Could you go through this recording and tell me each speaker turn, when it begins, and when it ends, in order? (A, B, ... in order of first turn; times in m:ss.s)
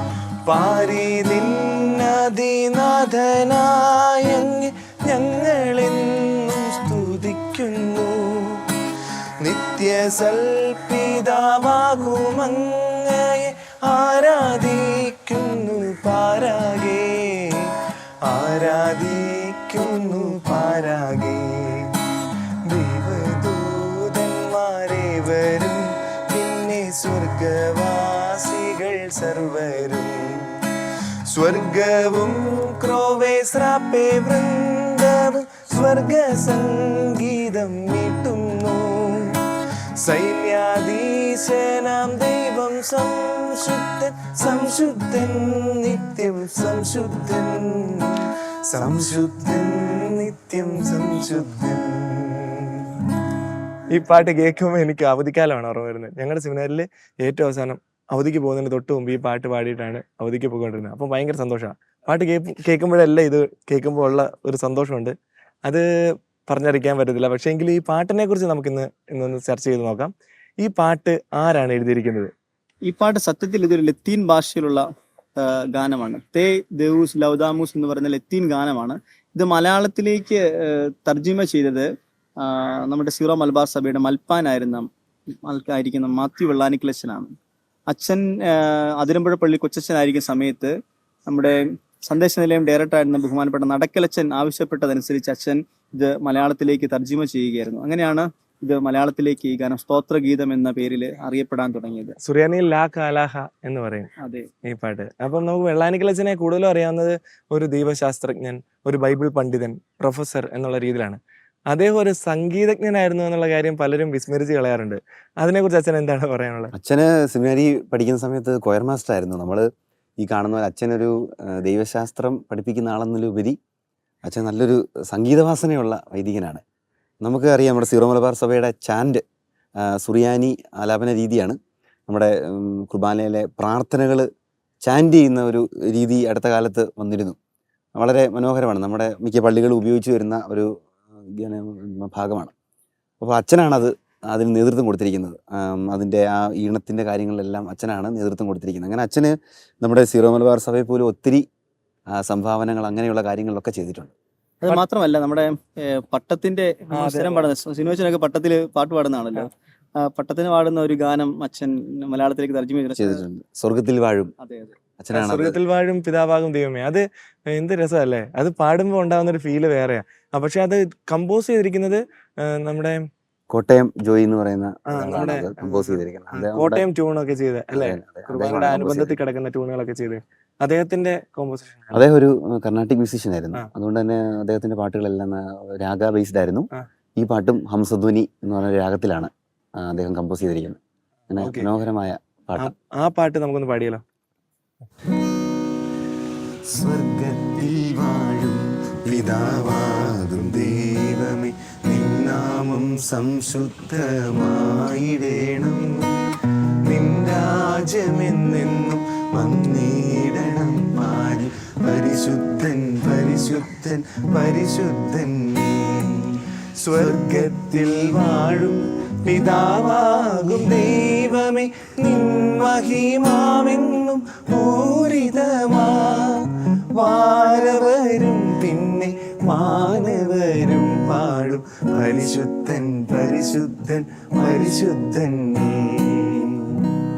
0:00.4-0:08.7 A
0:09.4-0:17.7 A
0:18.2-0:22.0 A
0:22.6-0:30.6 A
0:31.2-0:39.4 A
0:40.0-0:52.9 A
0:53.9-1:05.1 A
1:06.4-1:12.3 A
1:12.8-1:14.8 B
1:15.4-1:21.9 B
1:22.4-1:24.9 B
1:25.4-1:27.3 B
1:27.9-1:30.7 B
1:31.3-1:42.2 B
1:42.2-1:44.1 A
1:44.6-1:56.7 A
1:56.8-1:59.7 C
2:00.2-2:03.6 C
2:04.2-2:06.6 C
2:07.2-2:09.2 C
2:09.8-2:11.6 C
2:12.1-2:14.3 C
2:14.8-2:17.4 C
2:18.0-2:22.5 C
2:23.2-2:31.4 C
2:32.1-2:34.1 C
2:34.6-2:39.5 B
2:36.9-2:37.5 A
2:40.0-2:43.2 B
2:43.0-2:44.3 C
2:44.4-2:44.8 B
2:45.0-2:45.6 C
2:45.1-2:53.0 A
2:53.5-2:56.8 C
2:54.9-3:02.0 A
2:57.7-2:59.2 C
3:01.9-3:10.8 C
3:11.3-3:12.7 C
3:11.3-3:11.7 A
3:12.6-3:14.0 A
3:16.8-3:17.5 C
3:17.2-3:18.3 A
3:19.0-3:26.2 A
3:26.8-3:56.8 A